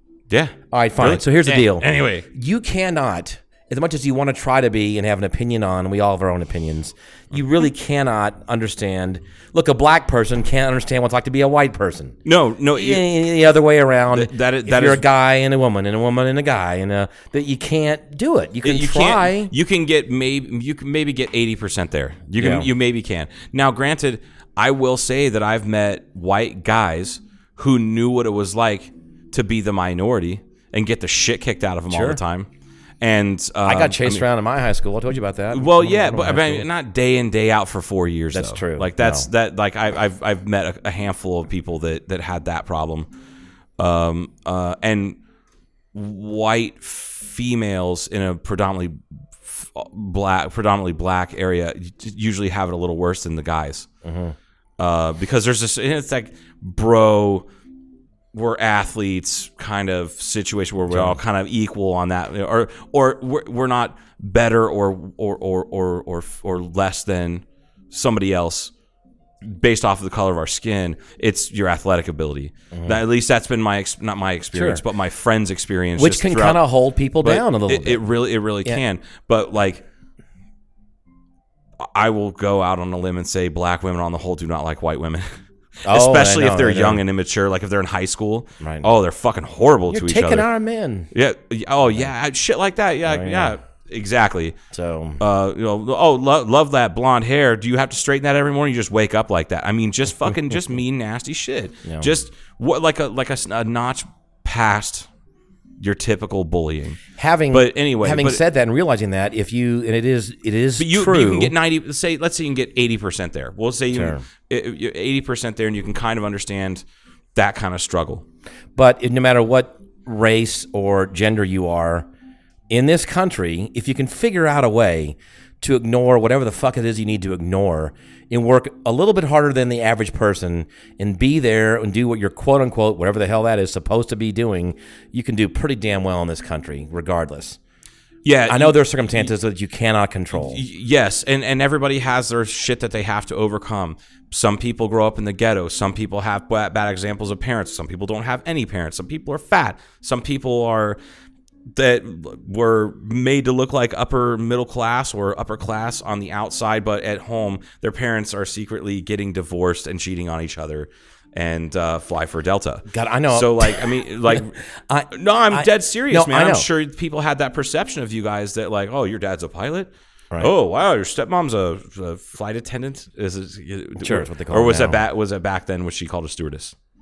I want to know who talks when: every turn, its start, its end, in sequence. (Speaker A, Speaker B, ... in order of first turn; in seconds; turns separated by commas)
Speaker A: 0.3-2.3, Speaker B: 0.7-12.2, Speaker A: 12.2-13.2, Speaker B: 12.7-19.5, Speaker A: 14.1-15.1, Speaker A: 18.6-32.5, Speaker B: 22.4-22.7, Speaker B: 31.9-32.2, Speaker A: 33.0-34.3, Speaker B: 33.6-36.7, Speaker A: 35.5-43.1, Speaker B: 38.3-39.3, Speaker A: 43.8-45.2, Speaker A: 45.9-53.9, Speaker B: 54.0-54.4, Speaker A: 54.8-57.5, Speaker A: 58.3-68.7, Speaker B: 60.9-61.2, Speaker A: 69.4-76.6, Speaker B: 72.7-73.0, Speaker B: 74.5-74.8, Speaker B: 76.0-78.1, Speaker A: 77.2-79.8, Speaker A: 81.8-85.3, Speaker B: 85.9-87.0, Speaker A: 85.9-90.5, Speaker B: 88.6-88.9, Speaker B: 89.9-91.1, Speaker A: 91.1-94.6, Speaker B: 93.1-93.6, Speaker B: 94.7-95.2, Speaker A: 95.2-105.1, Speaker B: 101.8-102.1, Speaker A: 105.8-108.4, Speaker B: 107.2-111.5, Speaker A: 110.8-116.8, Speaker B: 113.9-114.3, Speaker A: 117.3-118.2, Speaker B: 118.8-122.1, Speaker B: 122.7-137.6, Speaker A: 138.2-139.3, Speaker B: 138.5-140.6, Speaker A: 140.3-151.0, Speaker A: 151.7-164.6, Speaker B: 162.9-166.7, Speaker A: 165.1-176.8, Speaker B: 174.0-175.0